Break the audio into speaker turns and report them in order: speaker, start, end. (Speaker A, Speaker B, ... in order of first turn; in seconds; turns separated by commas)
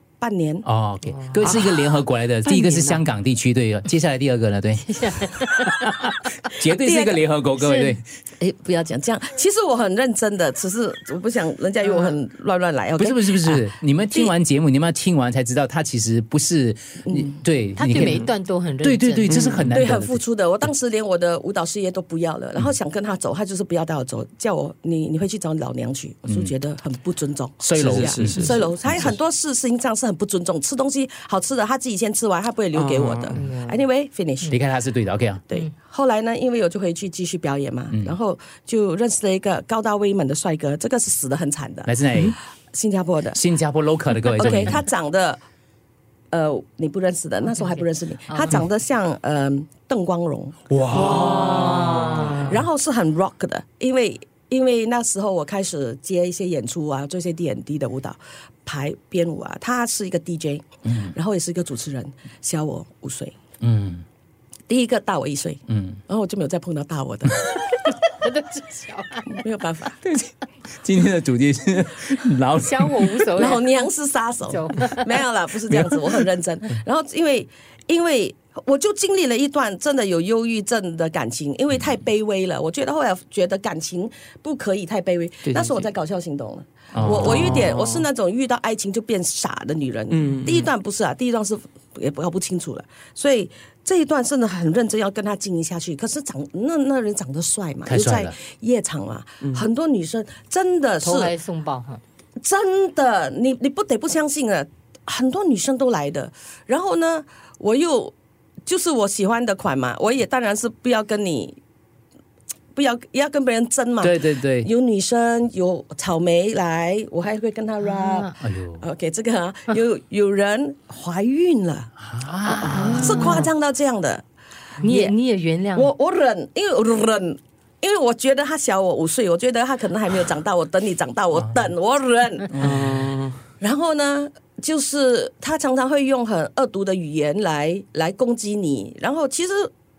Speaker A: 0.2-0.7, Speaker B: 0.7-8.0, Speaker C: 1.1-1.4, Speaker D: 1.4-3.0, Speaker C: 4.9-5.8, Speaker A: 6.7-7.2, Speaker C: 7.6-8.0, Speaker A: 8.4-14.3, Speaker C: 11.8-12.2, Speaker B: 13.0-20.7, Speaker A: 17.1-17.4, Speaker C: 17.8-19.5, Speaker D: 19.3-19.7, Speaker A: 19.7-34.6, Speaker B: 26.3-26.5, Speaker B: 27.6-29.1, Speaker D: 27.8-28.7, Speaker D: 32.7-33.4, Speaker C: 33.4-33.8, Speaker B: 34.5-35.4, Speaker A: 35.5-41.9, Speaker B: 41.9-42.4, Speaker A: 42.7-43.4, Speaker B: 43.3-44.9, Speaker A: 44.3-45.4, Speaker A: 46.3-51.8, Speaker C: 47.5-48.6, Speaker B: 50.7-51.2, Speaker D: 50.9-52.4, Speaker C: 50.9-52.6, Speaker A: 52.5-63.4, Speaker B: 60.9-61.1, Speaker B: 63.6-64.0, Speaker A: 64.7-67.4, Speaker B: 65.7-66.0, Speaker C: 67.8-69.4, Speaker A: 69.3-70.0, Speaker B: 70.0-73.2, Speaker C: 72.6-73.6, Speaker A: 73.3-101.3, Speaker C: 74.5-75.2, Speaker D: 85.4-85.9, Speaker B: 86.9-87.5, Speaker D: 87.0-88.1, Speaker D: 90.1-90.7, Speaker B: 97.9-98.3, Speaker D: 99.4-99.7, Speaker C: 101.0-102.0, Speaker A: 102.4-108.1, Speaker A: 108.7-111.6, Speaker A: 112.7-121.9, Speaker B: 114.0-114.7, Speaker C: 117.8-118.4, Speaker B: 118.4-118.8, Speaker B: 122.0-123.2, Speaker C: 122.5-123.5, Speaker D: 122.6-123.5, Speaker A: 122.8-124.2, Speaker C: 124.8-125.9, Speaker A: 124.8-125.2, Speaker A: 125.8-132.6, Speaker B: 132.5-132.9, Speaker D: 132.6-133.4, Speaker A: 133.6-139.7